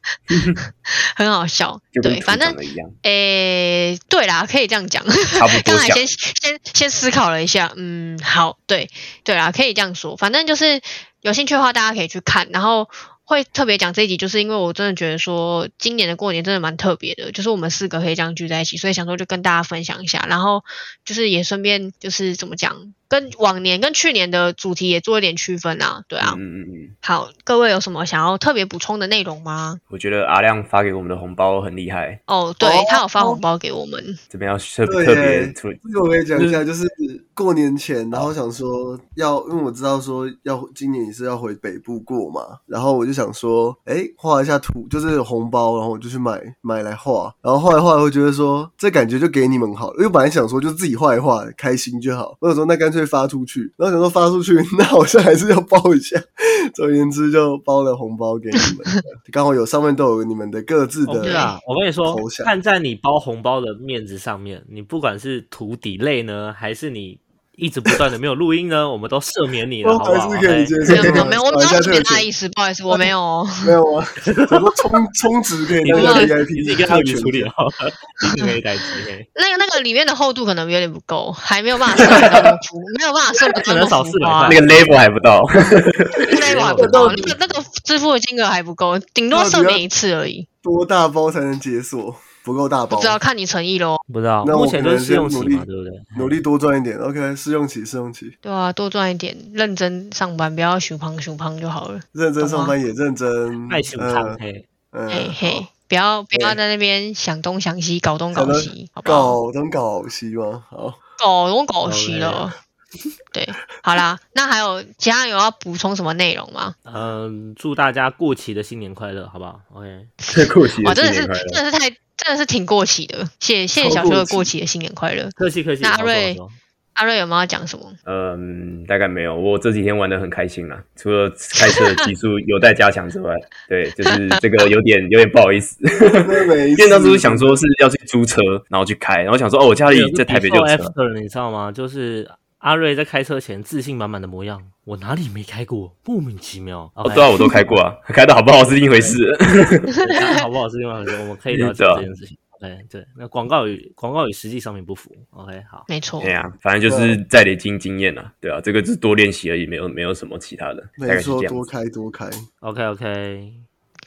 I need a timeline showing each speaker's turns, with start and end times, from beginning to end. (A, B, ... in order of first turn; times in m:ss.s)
0:00.3-0:00.6 A
0:00.9-0:26.4 B
0:01.9-0:02.9 A
0:05.3-0:06.0 A
0:26.2-0:26.9 A
0:27.0-0:29.8 B
0:29.9-0:32.2 A
0:32.3-0:34.2 B
0:32.6-0:33.4 C
0:34.3-0:35.8 A
0:34.8-1:01.5 C
1:01.0-1:11.3 D
1:01.2-1:01.5 B
1:02.0-1:02.5 C
1:09.8-1:12.3 C
1:10.9-1:13.7 B
1:13.6-1:17.5 C
1:14.2-1:14.7 D
1:15.8-1:19.3 D
1:15.9-1:16.3 B
1:19.3-1:24.6 B
1:22.0-1:22.5 A
1:23.5-1:24.9 D
1:24.4-1:26.4 A
1:26.3-1:30.5 B
1:26.3-1:27.6 D
1:26.7-1:27.3 C
1:29.3-1:29.8 C
1:30.6-1:33.2 C
1:32.9-1:34.0 B
1:34.1-1:36.3 D
1:34.4-1:38.3 C
1:38.4-1:42.7 B
1:42.1-1:44.4 C
1:43.7-1:44.6 D
1:44.9-1:45.6 C
1:45.1-1:49.4 B
1:46.3-1:46.6 C
1:48.3-1:51.0 C
1:51.2-1:52.5 B
1:51.8-1:52.5 D
1:53.3-1:56.7 B
1:56.8-2:00.1 D
2:00.2-2:06.4 B
2:00.3-2:01.6 A
2:03.7-2:04.5 C
2:05.4-2:06.6 D
2:07.0-2:08.0 B
2:08.0-2:20.9 A
2:11.6-2:11.8 B
2:14.1-2:14.7 B
2:16.2-2:17.6 C
2:19.9-2:27.6 D
2:27.0-2:30.0 A
2:28.6-2:29.2 D
2:29.9-2:35.9 D
2:31.5-2:32.0 A
2:35.9-2:36.3 B
2:36.2-2:41.6 A
2:36.8-2:37.2 C
2:41.0-2:42.4 C
2:42.6-2:43.6 D